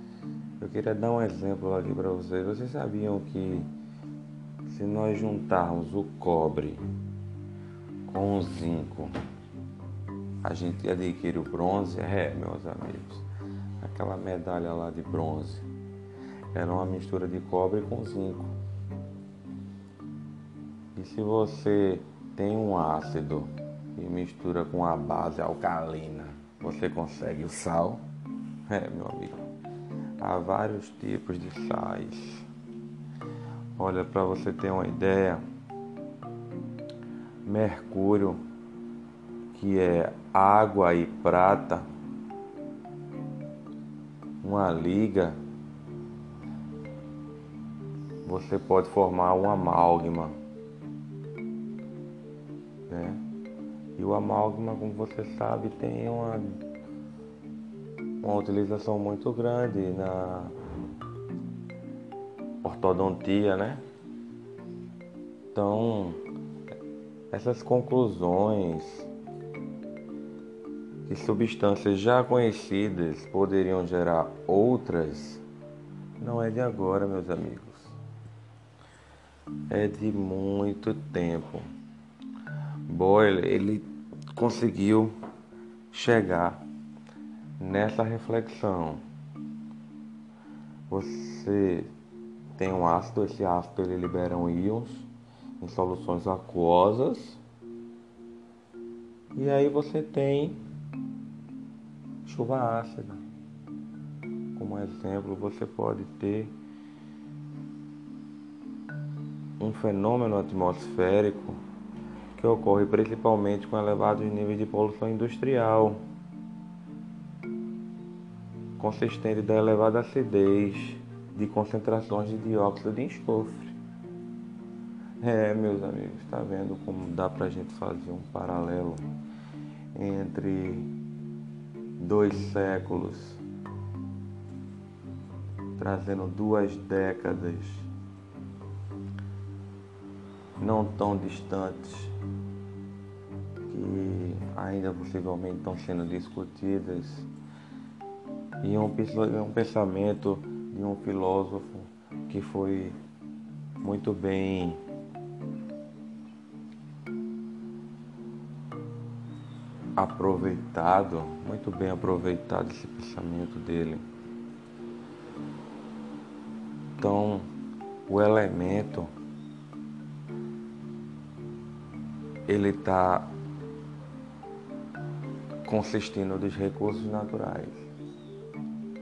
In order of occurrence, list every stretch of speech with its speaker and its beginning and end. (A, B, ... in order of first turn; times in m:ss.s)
0:00.6-0:03.7 A
0:04.7-0:06.8 A
0:08.1-0:09.1 A
0:10.4-0:13.3 A
0:13.8-0:15.7 A
0:16.5-0:18.5 A
0:21.0-0:28.0 A
0:28.7-0:29.4 A
0:30.2-0:32.5 A
0:33.8-0:35.4 A
0:37.5-0:38.4 A
0:39.5-0:41.9 A
0:44.4-0:45.4 A
0:48.2-0:50.4 A
0:52.9-0:53.2 A
0:54.0-0:56.6 A
0:58.2-1:00.5 A
1:02.6-1:03.8 A
1:05.5-1:06.2 A
1:07.3-1:09.1 A
1:11.1-1:15.4 A
1:16.2-1:18.0 A
1:19.7-1:21.7 A
1:22.9-1:25.1 A
1:25.9-1:26.6 A
1:27.6-1:29.0 A
1:30.9-1:31.9 A
1:32.6-1:35.1 A
1:35.6-1:37.4 A
1:39.4-1:40.6 A
1:42.2-1:43.2 A
1:44.6-1:46.6 A
1:49.6-1:51.6 A
1:52.4-1:56.0 A
1:58.8-2:03.8 A
2:05.2-2:09.0 A
2:10.0-2:10.9 A
2:12.0-2:13.4 A
2:15.8-2:17.9 A
2:20.6-2:22.1 A
2:23.6-2:27.3 A
2:28.6-2:33.0 A
2:33.8-2:34.8 A
2:40.0-2:44.0 A
2:47.0-2:47.5 A
2:48.1-2:49.1 A
2:52.5-2:53.3 A
2:55.6-2:57.9 A